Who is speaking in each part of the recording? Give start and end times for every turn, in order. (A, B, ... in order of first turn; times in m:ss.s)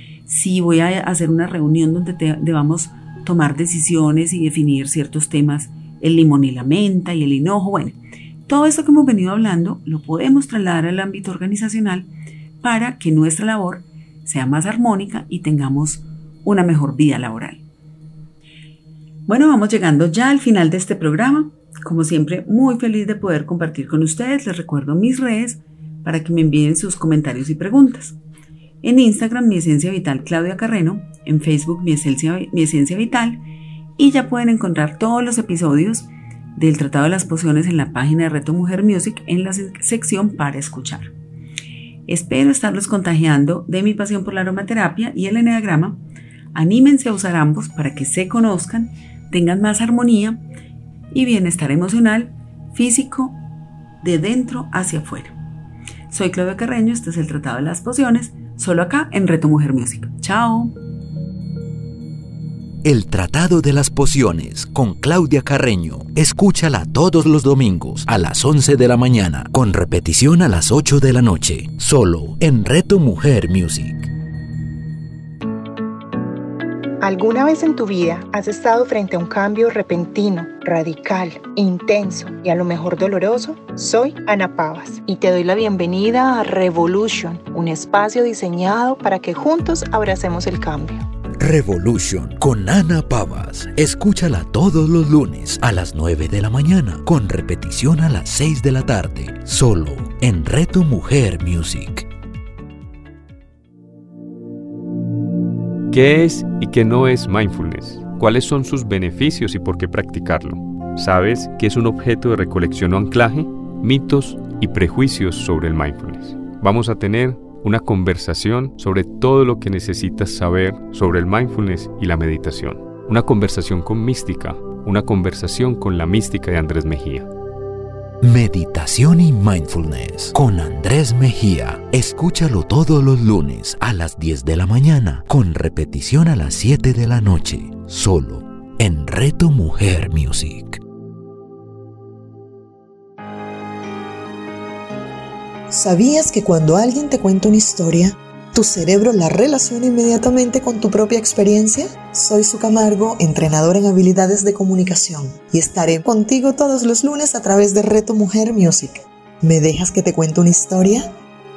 0:00.2-0:12.1 A
0:12.6-0:17.6 A
0:19.3-0:28.2 A
0:28.8-0:33.4 A
0:34.0-0:41.1 A
0:42.1-0:46.0 A
0:46.5-0:50.4 A
0:51.1-0:53.4 A
0:54.0-0:55.3 A
0:56.1-1:00.7 A
1:02.8-1:14.1 B
1:17.0-1:31.0 C
1:31.4-1:42.1 B
1:45.9-2:07.3 D
2:08.2-2:20.8 B
2:25.7-2:41.1 E